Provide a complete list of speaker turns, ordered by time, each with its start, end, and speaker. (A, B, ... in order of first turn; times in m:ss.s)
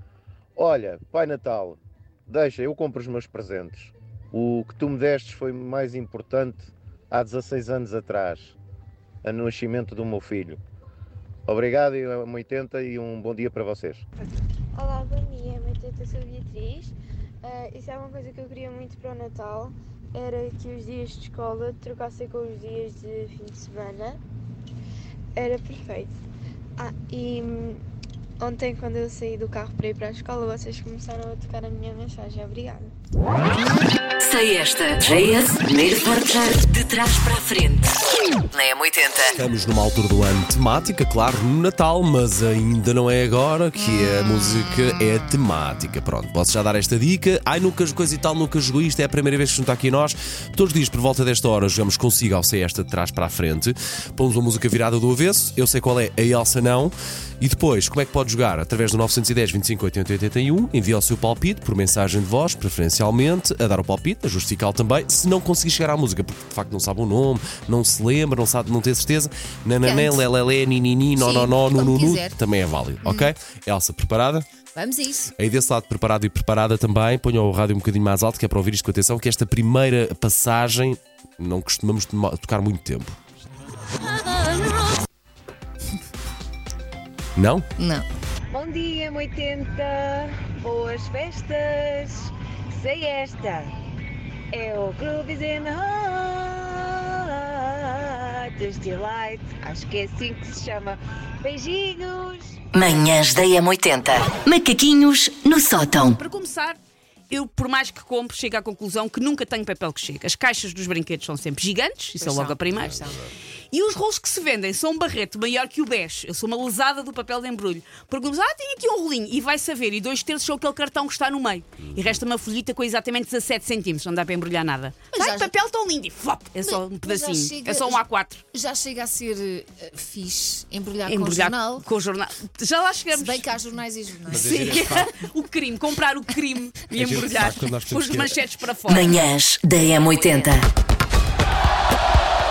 0:00.6-0:08.6 A
0:09.2-0:10.6 A
0:11.5-0:14.0 A
0:14.8-0:24.2 B
0:25.4-0:26.2 B
0:26.8-0:27.8 B
0:28.4-0:32.9 B
0:34.2-0:37.9 C
0:38.5-0:39.3 C
0:39.4-1:14.4 D
1:09.8-1:10.3 E
1:11.2-1:12.4 E
1:13.0-1:13.3 E
1:14.8-1:15.3 E
1:15.4-1:23.2 D
1:27.4-1:27.6 D
1:27.8-1:28.0 E
1:28.5-1:33.7 F
1:34.5-1:42.6 F
1:42.7-1:46.2 C
1:46.0-1:46.8 G
1:47.3-1:53.0 G
1:52.2-1:53.2 E
1:52.7-1:53.3 D
1:53.7-2:08.4 G
2:01.8-2:02.2 D
2:05.1-2:05.5 E
2:06.6-2:11.8 E
2:11.1-2:13.5 G
2:13.1-2:14.5 E
2:14.3-2:15.1 D
2:14.3-2:19.2 G
2:16.9-2:18.4 D
2:18.9-2:20.6 C